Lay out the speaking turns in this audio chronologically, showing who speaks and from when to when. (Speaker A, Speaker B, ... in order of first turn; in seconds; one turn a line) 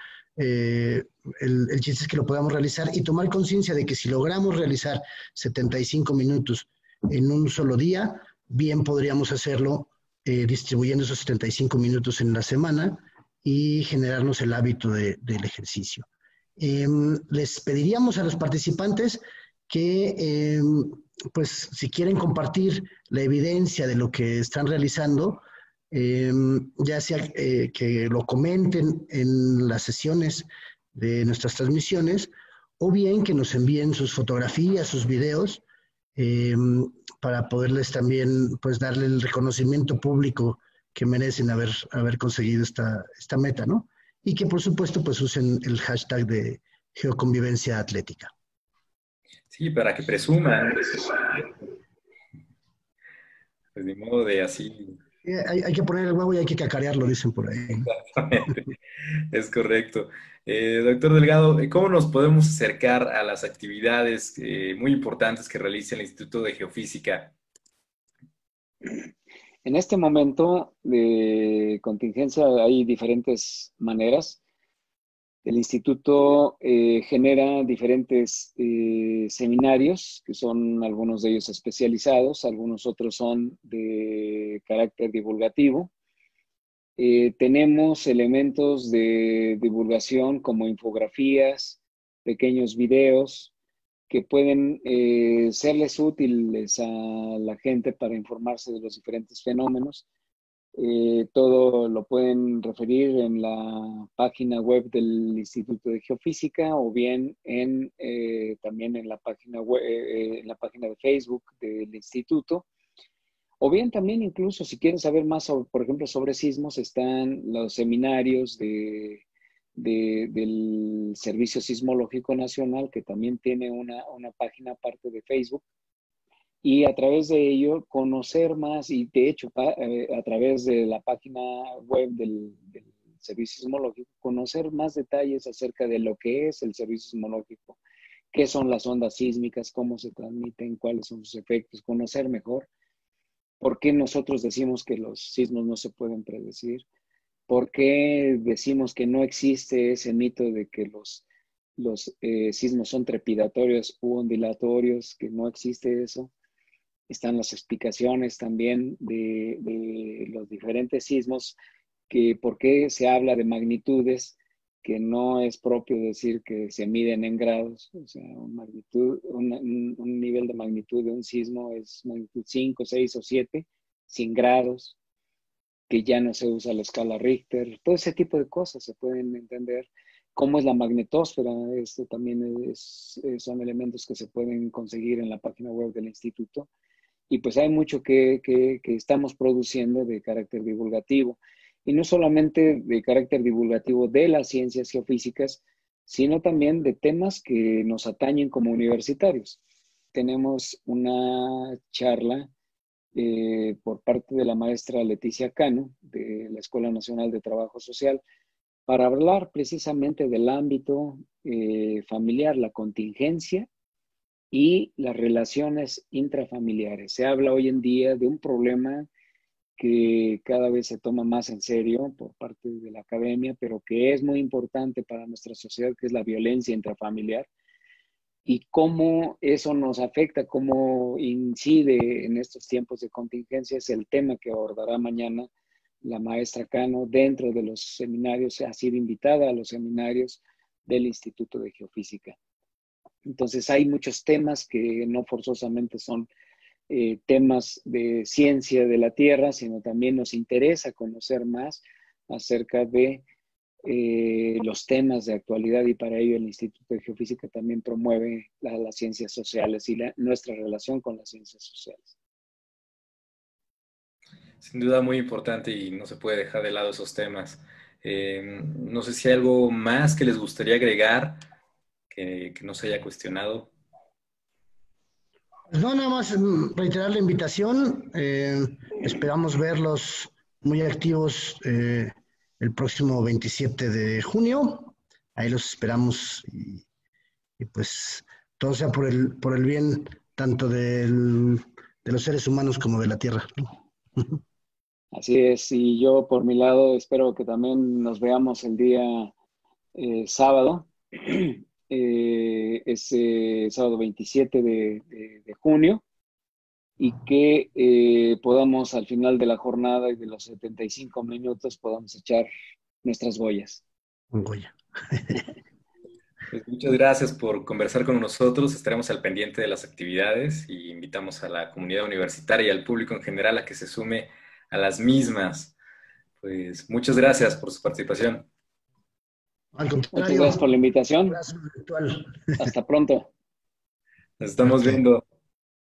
Speaker A: 0.4-35.6
Speaker A: 36.1-48.3
Speaker B: 49.5-51.5
Speaker B: 53.7-55.0
Speaker A: 55.2-57.9
Speaker B: 57.9-58.7
Speaker B: 59.3-67.3
Speaker C: 69.6-74.4
Speaker C: 75.4-85.9
Speaker C: 87.0-93.5
Speaker C: 94.1-100.0
Speaker C: 100.8-112.7
Speaker C: 113.6-119.2
Speaker C: 119.8-125.6
Speaker C: 126.6-137.8
Speaker C: 138.3-142.7
Speaker C: 143.6-146.8
Speaker C: 147.5-151.2
Speaker C: 151.8-156.3
Speaker C: 157.1-161.6
Speaker C: 162.1-174.9
Speaker C: 175.9-186.7
Speaker C: 187.3-199.6
Speaker C: 200.1-202.5
Speaker C: 203.1-208.2
Speaker C: 208.9-213.7
Speaker C: 214.5-219.1
Speaker C: 219.8-227.5
Speaker C: 228.4-235.5
Speaker C: 236.0-242.4
Speaker C: 243.2-246.3
Speaker C: 246.9-253.2
Speaker C: 253.8-262.1
Speaker B: 264.6-271.4
Speaker B: 272.1-273.7
Speaker A: 275.7-286.8
Speaker A: 287.6-294.4
Speaker C: 295.1-299.3
Speaker C: 299.9-306.0
Speaker C: 307.0-312.5
Speaker C: 313.0-313.8
Speaker A: 314.3-315.4
Speaker B: 316.5-325.7
Speaker B: 326.4-328.5
Speaker A: 329.7-330.6
Speaker C: 330.1-331.4
Speaker A: 331.3-332.7
Speaker C: 332.6-333.3
Speaker B: 334.4-335.2